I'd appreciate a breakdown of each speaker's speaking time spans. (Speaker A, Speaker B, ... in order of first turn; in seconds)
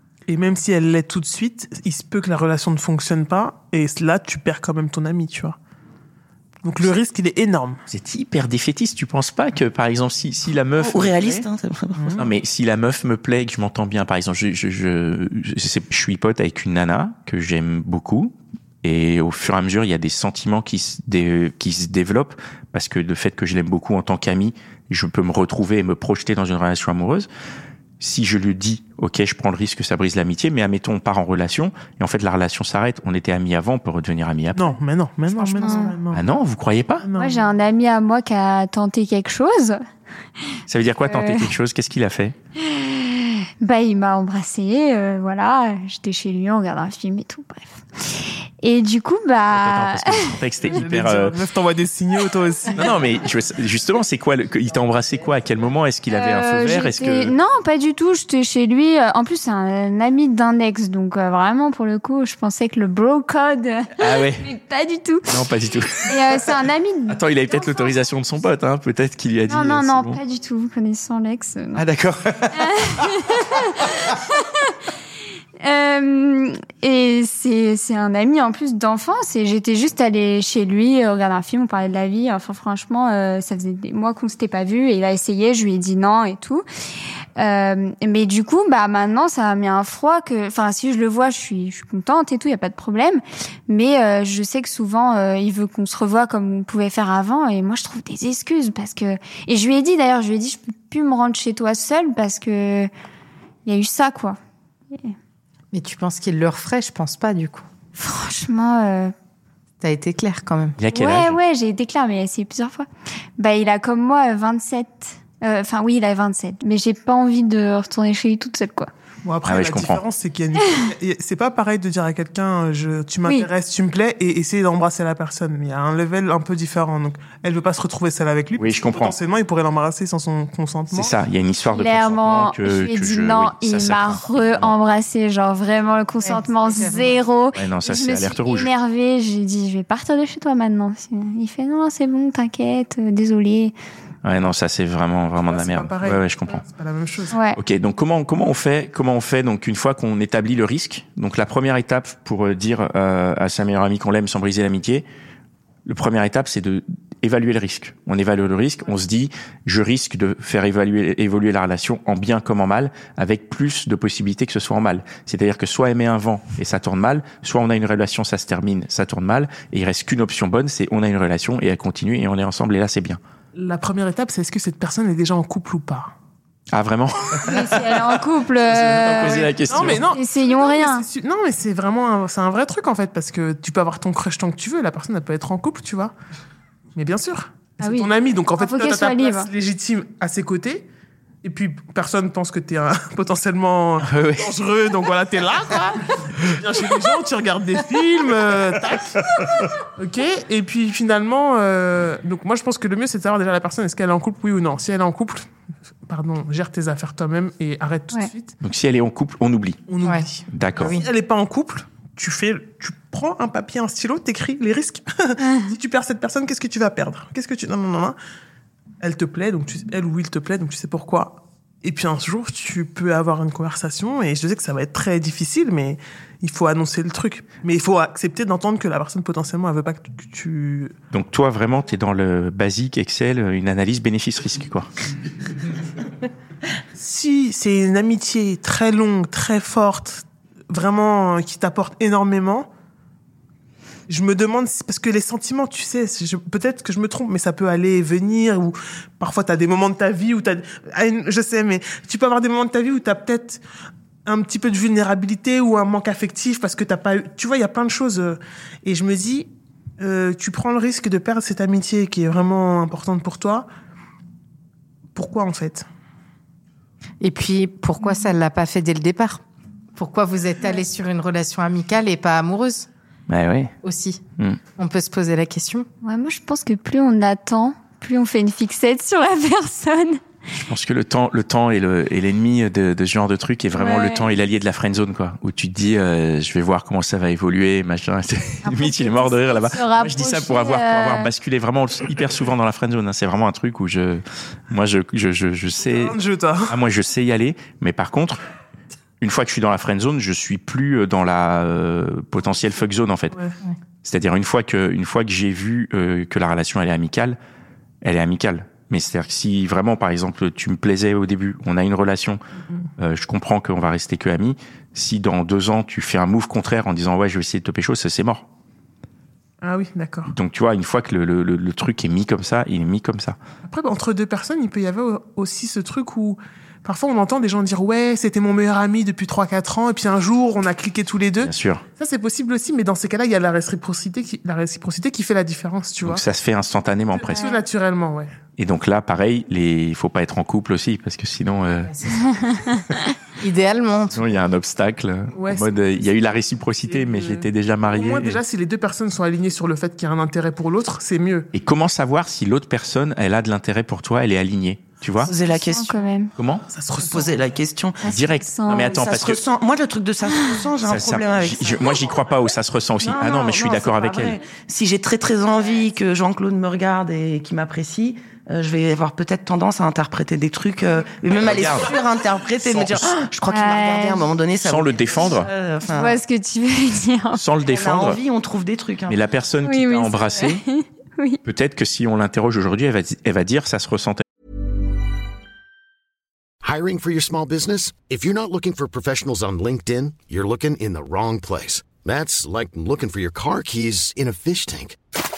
Speaker A: 0.3-5.6, 6.6-7.8, 12.0-12.3, 34.5-36.2, 37.0-37.5, 50.6-53.0, 119.2-131.2, 145.4-147.4, 173.6-176.1, 179.1-186.1, 187.0-190.9, 191.4-199.2, 200.0-205.4, 206.1-208.5, 209.9-218.2, 219.0-230.9, 237.0-242.7, 244.1-253.6, 254.3-263.7, 265.1-265.9, 295.8-296.8, 303.3-303.6, 319.6-320.3, 323.6-336.2, 337.1-338.3, 345.3-345.9, 346.8-351.5, 356.7-357.5
Speaker B: 7.9-11.4, 12.2-27.3, 28.0-34.7, 36.1-37.1, 40.7-42.4, 49.5-51.4, 52.8-57.3, 64.0-64.5, 65.3-66.5, 67.1-70.2, 71.8-73.9, 110.8-111.4, 119.5-120.0, 128.6-129.1, 130.9-134.7, 137.6-138.7, 144.2-146.6, 147.6-155.1, 155.9-173.2, 176.7-178.0, 178.6-180.1, 194.0-194.5, 208.6-209.8, 210.5-211.0, 231.1-234.9, 273.3-273.7, 280.6-296.1, 296.7-298.4, 299.2-303.4, 304.0-307.4, 308.0-312.4, 313.0-318.4, 320.3-323.4, 331.4-331.8, 336.0-337.5, 338.6-341.9, 344.1-348.4, 351.5-355.3, 356.4-356.6, 358.1-359.4, 360.9-364.4, 371.4-371.9, 372.6-373.1, 374.6-375.5, 377.3-378.2, 379.1-380.6, 381.4-384.2
Speaker C: 10.8-12.2, 355.2-356.0, 357.0-358.1, 358.8-362.0, 363.0-376.1, 377.7-379.1
Speaker D: 35.3-35.9, 105.7-107.7, 109.8-110.8, 136.2-137.2, 210.8-211.1, 267.2-269.4, 269.9-272.9, 273.8-274.2, 274.8-275.9, 341.9-342.4, 343.4-344.2
Speaker E: 35.6-36.0, 37.2-39.8, 41.0-41.5, 42.6-50.4, 56.1-65.4, 66.0-67.2, 69.5-71.8, 72.6-74.8, 75.6-86.7, 87.4-102.9, 103.7-104.4, 108.0-109.1, 110.9-112.9, 113.4-118.9, 123.2-123.5, 131.7-143.8, 147.3-147.6, 177.4-181.1, 187.8-189.5, 215.4-215.7, 276.0-280.2, 283.8-284.3, 288.7-291.3, 355.5-356.3, 358.0-359.1, 373.5-374.3, 375.9-377.4, 379.6-381.4
Speaker F: 386.6-395.0